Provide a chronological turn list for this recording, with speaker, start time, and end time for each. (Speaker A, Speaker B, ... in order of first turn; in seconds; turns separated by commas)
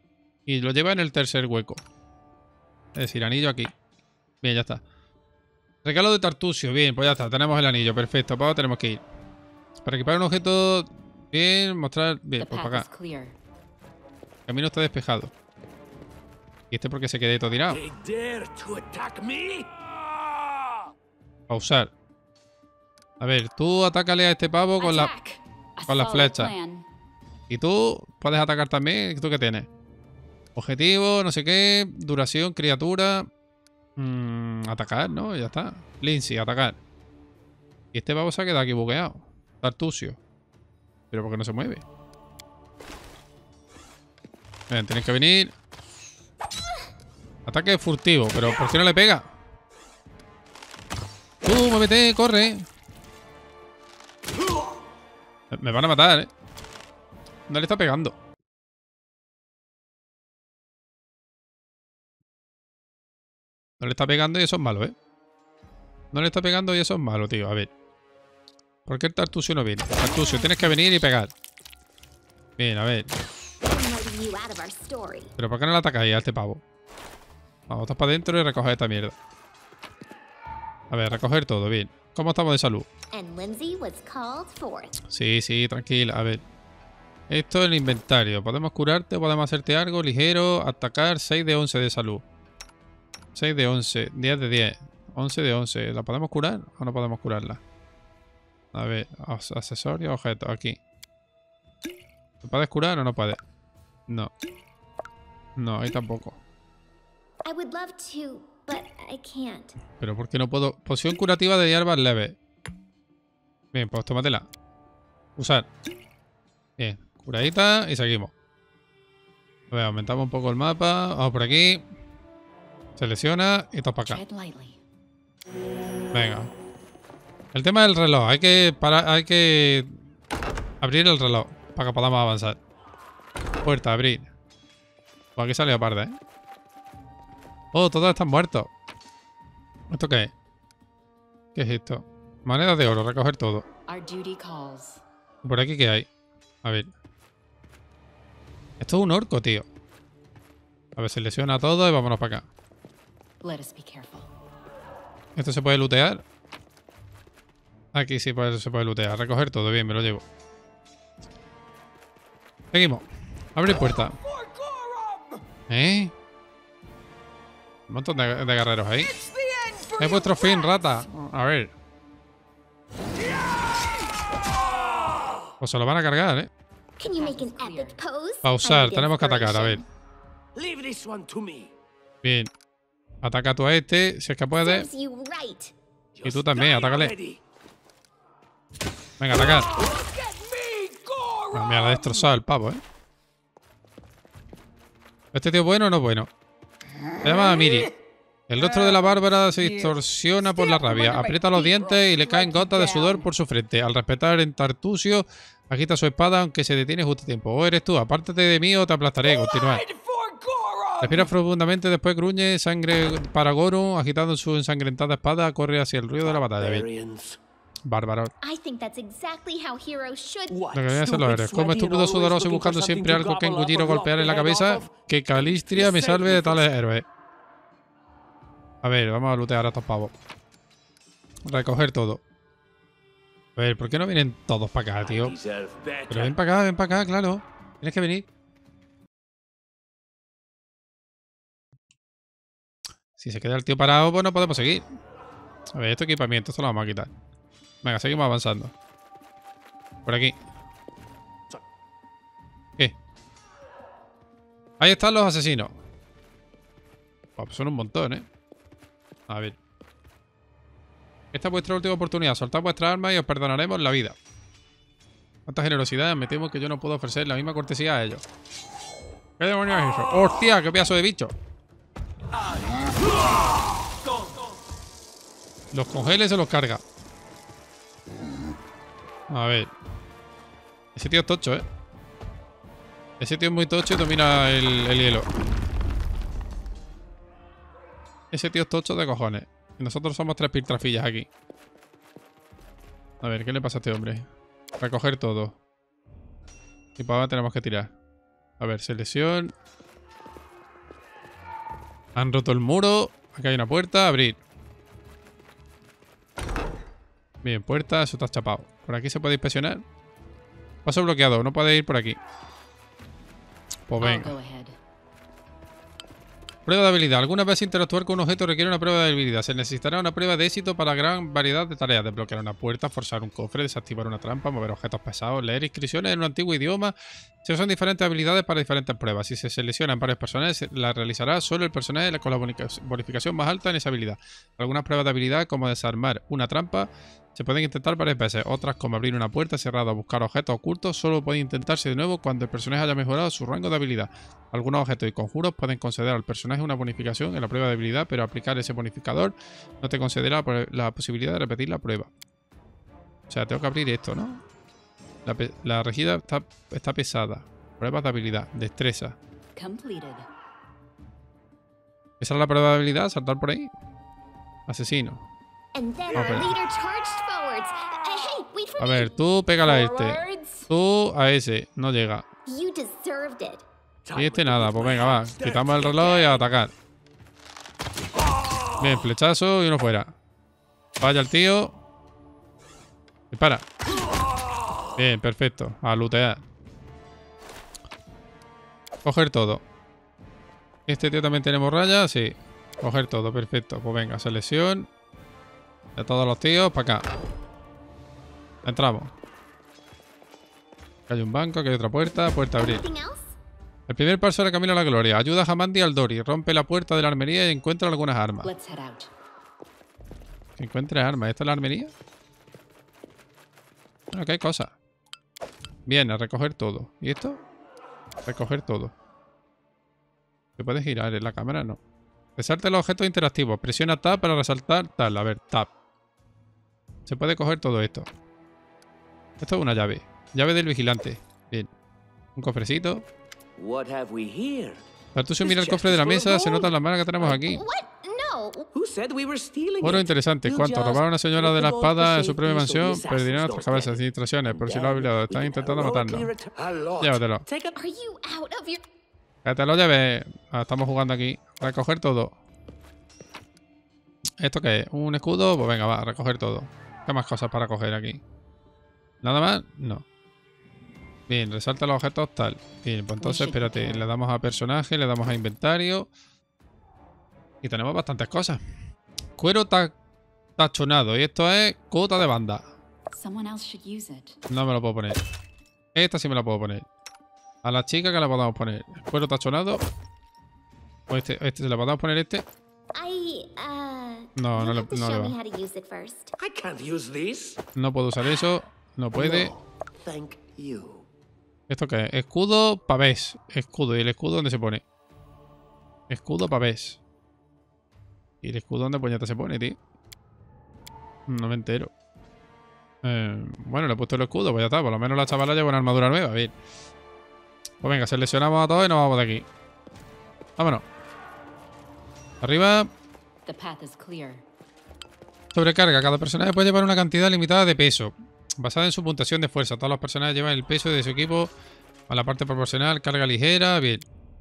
Speaker A: 0.5-1.8, Speaker A: 3.0-3.7, Speaker A: 4.4-4.8, Speaker A: 5.8-9.0, Speaker A: 9.8-12.9, Speaker B: 12.4-13.3, Speaker A: 14.5-15.3, Speaker A: 16.7-17.8, Speaker C: 17.7-20.7, Speaker A: 21.5-21.9, Speaker A: 23.2-25.1, Speaker B: 24.8-26.9, Speaker A: 25.9-26.5, Speaker A: 27.5-29.7, Speaker A: 30.6-33.3, Speaker A: 34.0-36.8, Speaker A: 37.9-40.2, Speaker A: 41.1-41.8, Speaker A: 44.7-45.5, Speaker A: 47.5-49.3, Speaker A: 51.5-52.6, Speaker A: 55.5-56.3, Speaker A: 57.5-58.1, Speaker A: 63.8-65.0, Speaker A: 66.1-67.7, Speaker A: 68.9-71.3, Speaker B: 70.1-70.5, Speaker A: 72.6-73.1, Speaker D: 73.6-75.3, Speaker A: 75.4-76.6, Speaker A: 77.7-79.2, Speaker A: 80.9-82.9, Speaker D: 83.1-85.0, Speaker A: 85.1-86.4, Speaker A: 87.3-92.2, Speaker A: 93.3-97.6, Speaker A: 98.7-100.8, Speaker A: 102.4-103.4, Speaker A: 105.6-106.4, Speaker D: 107.5-109.8, Speaker A: 110.0-112.4, Speaker A: 113.7-114.5, Speaker A: 115.4-115.7, Speaker A: 116.8-118.3, Speaker A: 119.7-121.8, Speaker A: 123.0-124.2, Speaker B: 124.1-124.8, Speaker A: 126.1-126.5, Speaker A: 127.5-130.0, Speaker A: 130.8-132.6, Speaker A: 133.6-134.3, Speaker A: 135.4-136.1, Speaker A: 137.7-138.7, Speaker A: 139.9-140.3, Speaker A: 141.5-143.7, Speaker B: 143.9-145.0, Speaker A: 145.4-146.1, Speaker A: 146.6-146.9, Speaker A: 148.8-149.7, Speaker A: 151.0-152.5, Speaker B: 153.4-154.3, Speaker A: 155.4-156.2, Speaker A: 157.9-160.2, Speaker A: 162.7-164.2, Speaker C: 164.3-165.4, Speaker A: 165.7-166.1, Speaker A: 167.9-169.2, Speaker C: 169.1-170.7, Speaker A: 170.0-171.7, Speaker A: 175.6-176.5, Speaker D: 177.0-179.8, Speaker B: 177.2-178.0, Speaker A: 178.4-179.8, Speaker C: 180.5-181.7, Speaker A: 182.2-182.5, Speaker A: 183.2-184.9, Speaker D: 184.5-185.7, Speaker C: 186.1-187.4, Speaker A: 186.2-187.1, Speaker A: 189.2-189.7, Speaker C: 189.3-192.3, Speaker A: 191.5-192.8, Speaker A: 195.3-196.3, Speaker A: 197.2-197.9, Speaker A: 198.5-209.8, Speaker C: 200.8-202.7, Speaker C: 209.2-211.3, Speaker A: 211.0-216.9, Speaker C: 216.2-217.4, Speaker A: 217.9-218.3, Speaker D: 218.4-220.6, Speaker C: 220.5-226.7, Speaker A: 220.7-227.0, Speaker A: 228.8-230.1, Speaker A: 231.5-232.2, Speaker A: 233.6-235.3, Speaker C: 235.0-236.4, Speaker A: 236.1-238.2, Speaker A: 243.2-244.8, Speaker A: 245.8-247.1, Speaker A: 247.8-248.7, Speaker A: 250.1-250.4, Speaker A: 254.8-255.8, Speaker A: 257.4-258.2, Speaker A: 259.3-259.6, Speaker A: 261.3-264.2, Speaker A: 265.5-268.2, Speaker A: 269.4-271.3, Speaker A: 275.7-276.8, Speaker A: 279.3-279.7, Speaker A: 281.0-281.6, Speaker A: 283.2-285.2, Speaker A: 288.3-291.3, Speaker A: 293.2-294.2, Speaker A: 294.8-295.6, Speaker A: 297.0-297.9, Speaker A: 298.6-299.5, Speaker A: 302.2-304.4, Speaker A: 307.4-309.8, Speaker A: 310.8-312.2, Speaker A: 313.9-314.4, Speaker B: 314.0-314.8, Speaker A: 316.7-352.1, Speaker A: 353.3-354.4, Speaker A: 355.2-359.2, Speaker B: 359.6-360.3, Speaker A: 362.2-363.7, Speaker A: 364.7-365.2, Speaker D: 365.7-369.2, Speaker A: 366.1-366.5, Speaker A: 368.8-372.2, Speaker B: 369.6-370.7, Speaker D: 372.5-373.6, Speaker C: 374.0-376.5, Speaker A: 374.1-376.7, Speaker A: 378.8-380.1, Speaker A: 381.0-381.8, Speaker A: 383.3-383.7, Speaker A: 385.0-386.4, Speaker A: 389.0-389.6, Speaker A: 390.9-394.9, Speaker A: 396.0-397.0, Speaker A: 398.6-399.1, Speaker A: 401.1-402.8, Speaker D: 402.6-403.4, Speaker A: 403.9-408.5, Speaker B: 408.4-409.1, Speaker A: 410.6-411.9, Speaker A: 414.1-414.7, Speaker A: 415.9-417.4, Speaker A: 418.2-418.9, Speaker A: 420.6-421.8, Speaker A: 422.4-425.7, Speaker A: 427.1-428.1, Speaker A: 429.4-431.7, Speaker A: 432.4-433.0, Speaker C: 433.6-434.8, Speaker A: 435.1-437.6, Speaker C: 435.4-436.7, Speaker D: 437.2-438.7, Speaker C: 438.7-447.8, Speaker A: 439.8-446.3, Speaker A: 447.0-447.4, Speaker D: 447.8-448.8, Speaker A: 449.4-452.3, Speaker A: 454.4-458.2, Speaker A: 459.2-460.1, Speaker A: 461.3-466.1, Speaker B: 463.2-464.1, Speaker A: 467.6-468.6, Speaker A: 469.4-469.9, Speaker A: 470.6-472.7, Speaker B: 473.1-474.4, Speaker A: 474.5-475.2, Speaker A: 475.9-476.9, Speaker A: 477.6-479.8, Speaker A: 481.1-482.4, Speaker D: 482.9-486.3, Speaker A: 484.4-485.3, Speaker C: 486.4-487.6, Speaker A: 487.8-489.5, Speaker C: 489.1-491.1, Speaker A: 491.7-494.8, Speaker A: 496.1-497.0, Speaker A: 498.4-499.8, Speaker A: 501.3-501.9, Speaker A: 503.0-506.5, Speaker A: 507.8-509.5, Speaker A: 510.6-510.8, Speaker A: 512.4-512.9, Speaker B: 513.5-514.4, Speaker A: 515.5-521.5, Speaker A: 522.1-524.0